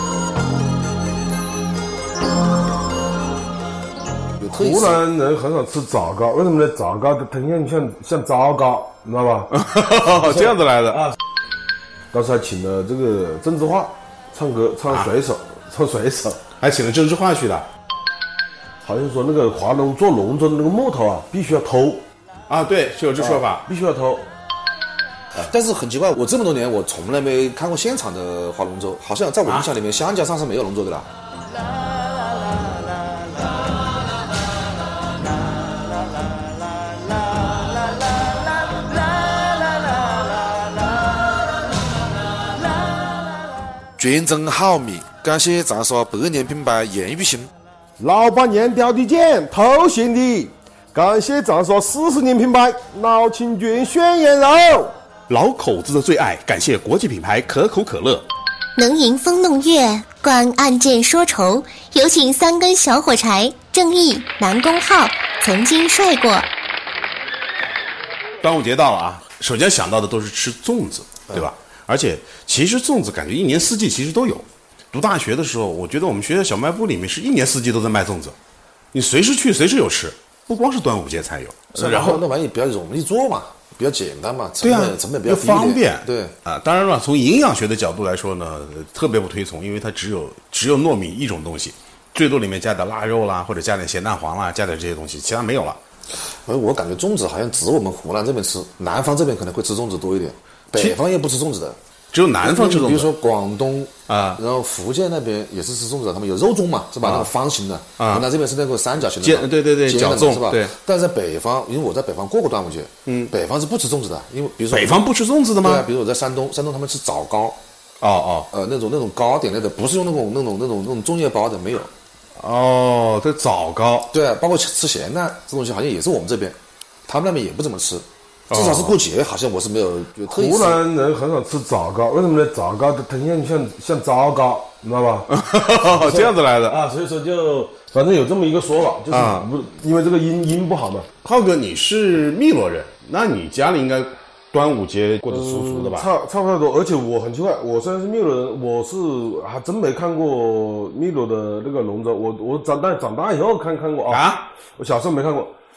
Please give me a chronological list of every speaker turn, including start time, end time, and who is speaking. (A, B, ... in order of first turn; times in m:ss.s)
0:04.4-0:05.0 A
0:04.5-0:09.5 B
0:09.5-0:11.1 C
0:10.2-0:10.6 B
0:12.1-0:16.4 B
0:16.6-0:17.7 C
0:18.8-0:22.0 B
0:22.5-0:23.7 C
0:23.2-0:24.3 B
0:25.4-0:31.1 A
0:29.4-0:29.7 C
0:44.0-0:47.5 A
0:48.0-0:55.0 B
0:55.3-0:58.3 C
0:58.8-1:06.5 D
1:08.4-1:18.4 C
1:18.9-1:22.2 C
1:21.7-1:26.4 A
1:24.6-1:35.8 C
1:36.2-1:41.8 A
1:42.1-1:43.1 C
1:42.4-1:55.0 A
1:44.1-1:44.4 C
1:47.0-1:47.3 C
1:48.0-1:48.3 C
1:49.0-1:50.7 C
1:53.1-1:53.3 C
1:54.7-1:55.9 C
1:55.6-1:57.6 A
1:58.0-1:58.5 C
1:58.5-2:01.9 A
2:02.4-2:04.1 C
2:04.1-2:10.8 A
2:08.5-2:09.0 C
2:10.3-2:15.3 B
2:15.3-2:16.8 C
2:15.9-2:21.1 B
2:19.1-2:19.5 C
2:21.2-2:26.1 C
2:25.3-2:35.6 B
2:34.1-2:34.5 C